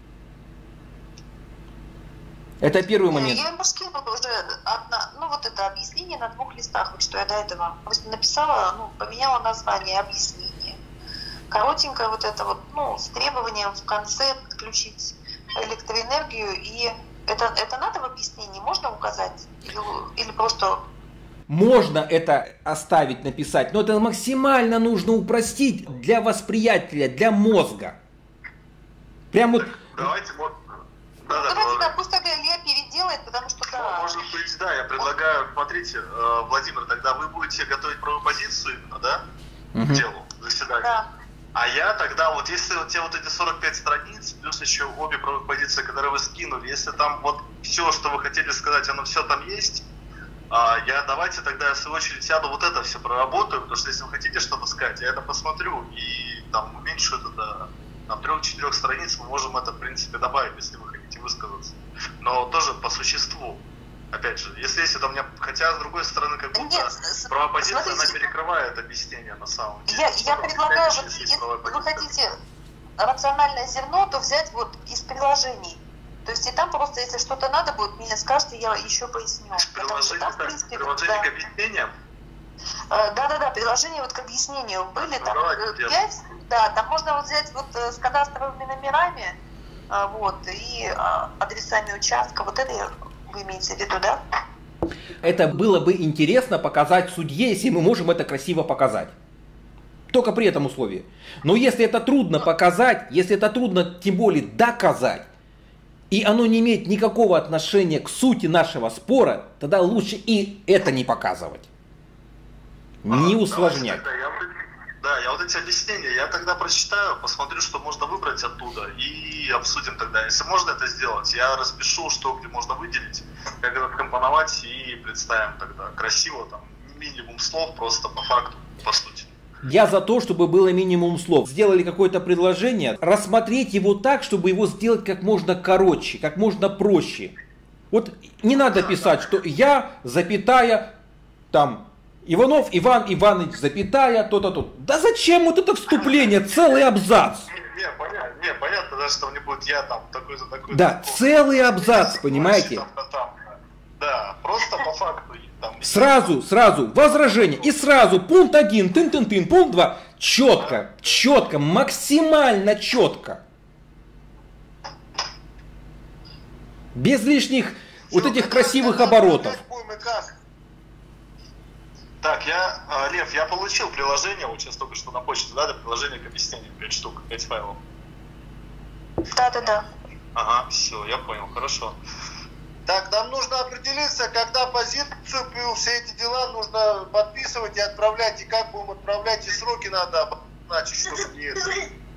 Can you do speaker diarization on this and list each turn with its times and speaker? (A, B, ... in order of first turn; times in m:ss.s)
0:02.6-0:03.4 A
0:03.1-0:10.8 B
0:11.5-0:20.8 B
0:21.5-0:28.0 A
0:29.3-0:29.9 A
0:29.6-0:30.6 C
0:31.2-0:31.9 C
0:31.3-0:34.2 B
0:33.7-0:39.2 C
0:39.7-0:40.0 A
0:39.9-0:41.0 C
0:41.5-0:49.8 C
0:50.5-1:12.1 C
1:06.6-1:08.1 B
1:09.9-1:12.4 B
1:13.0-1:21.2 B
1:19.6-1:21.9 C
1:22.9-1:29.4 B
1:25.0-1:26.0 C
1:29.9-1:34.2 B
1:35.2-1:39.1 A
1:40.1-1:45.3 A
1:46.1-1:51.7 A
1:53.0-1:54.0 A
1:53.1-2:09.3 C
2:09.6-2:17.3 A
2:17.9-2:20.9 A
2:21.5-2:27.5 A
2:27.5-2:33.4 C
2:30.7-2:32.8 A
2:34.0-2:36.3 C
2:35.8-2:43.4 A
2:47.0-2:49.6 A
2:48.1-2:50.3 D
2:52.2-2:57.8 C
2:59.3-2:59.8 B
3:00.4-3:02.0 C
3:02.9-3:11.9 D